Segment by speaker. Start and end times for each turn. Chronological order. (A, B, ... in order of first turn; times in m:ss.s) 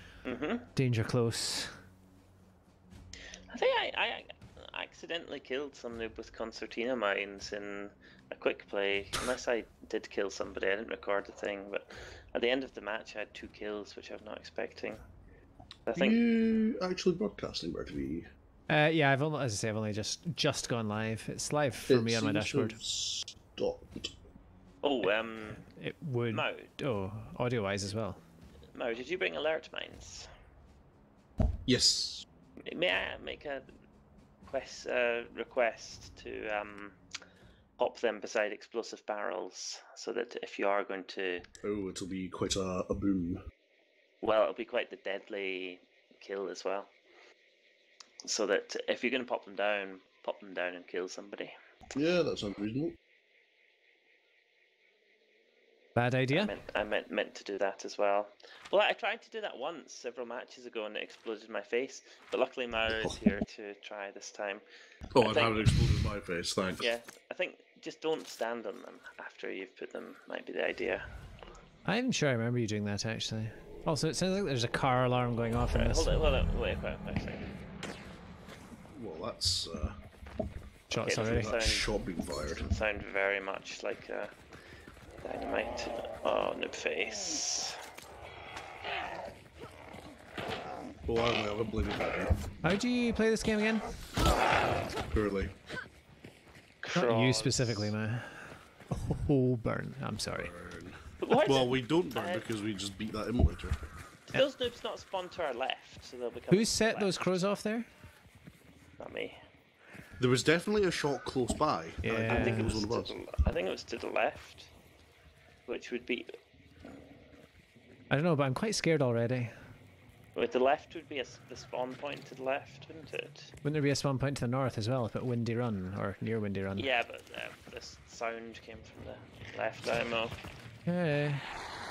0:00.2-0:00.7 A
0:00.8-0:01.7 B
0:03.5-0:15.0 A
0:15.9-0:16.2 A
0:16.0-0:18.3 C
0:18.7-0:22.8 B
0:21.9-0:24.1 C
0:24.8-0:25.7 A
0:25.6-0:28.2 B
0:26.3-0:26.7 A
0:28.8-0:30.3 A
0:31.7-0:32.3 C
0:32.7-0:33.7 A
0:34.5-0:37.0 A
0:37.8-0:41.5 A
0:41.6-0:43.4 C
0:44.2-0:46.9 A
0:48.2-0:51.5 A
0:52.0-0:53.0 C
0:56.0-0:56.5 B
0:56.3-1:04.6 A
1:05.1-1:06.9 C
1:05.2-1:05.7 A
1:06.8-1:11.0 A
1:11.8-1:16.2 B
1:15.7-1:17.5 A
1:18.9-1:20.0 C
1:20.9-1:21.5 B
1:21.0-1:24.3 A
1:21.2-1:22.7 C
1:25.2-1:27.8 A
1:31.1-1:32.3 C
1:32.6-1:33.9 B
1:35.1-1:35.5 C
1:36.8-1:37.9 A
1:36.9-1:40.5 B
1:40.4-1:43.8 C
1:41.2-1:42.4 A
1:44.3-1:47.5 A
1:46.5-1:47.9 B
1:49.0-1:49.4 A
1:50.2-1:53.1 C
1:52.0-1:52.8 B
1:52.3-1:54.7 A
1:55.7-1:56.3 A
1:58.1-1:59.5 B
2:00.4-2:03.5 A
2:03.6-2:06.9 B
2:06.8-2:10.4 A
2:10.9-2:11.5 B